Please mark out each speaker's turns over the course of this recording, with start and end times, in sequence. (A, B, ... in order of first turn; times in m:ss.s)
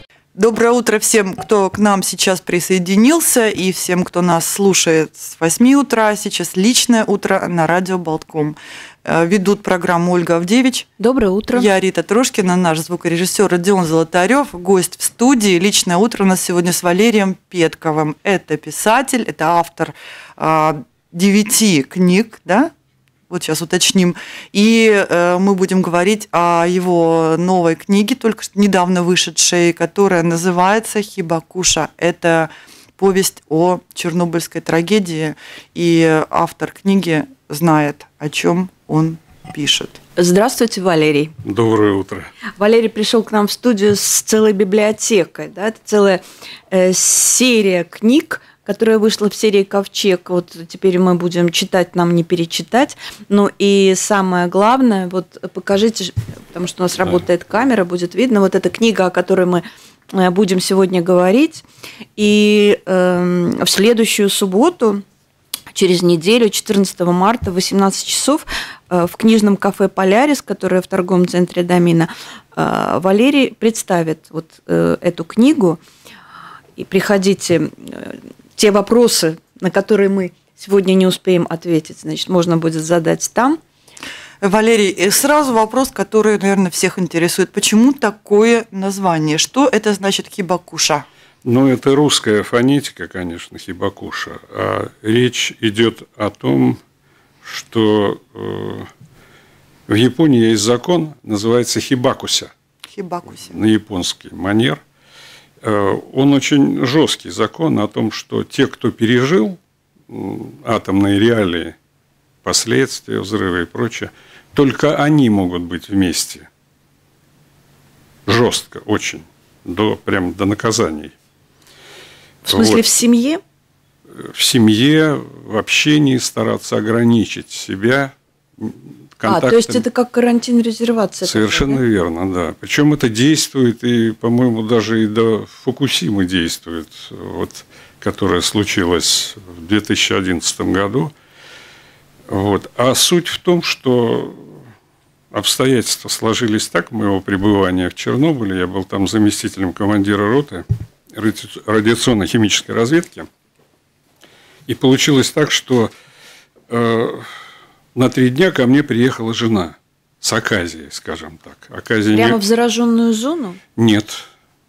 0:00.3-0:10.9 A
0:11.0-0:11.7 B
0:11.5-0:22.7 A
0:23.3-0:40.0 A
0:40.2-0:41.3 B
0:41.4-0:42.3 C
0:42.6-1:01.6 B
1:02.2-1:05.0 B
1:05.7-1:15.8 B
1:16.8-1:23.6 B
1:24.4-1:31.1 A
1:31.4-1:36.8 C
1:37.4-1:38.9 C
1:39.9-1:42.5 C
1:42.9-1:43.6 A
1:43.4-1:44.8 C
1:45.6-1:51.8 C
1:52.4-1:56.5 C
1:58.2-2:01.1 C
2:02.4-2:03.4 B
2:02.5-2:02.8 C
2:04.1-2:09.8 C
2:09.2-2:11.8 B
2:11.2-2:21.1 C
2:22.3-2:24.6 C
2:25.3-2:33.3 C
2:34.7-2:35.9 C
2:36.7-2:37.3 C
2:37.9-2:42.4 C
2:42.1-2:43.6 B
2:43.8-2:44.3 C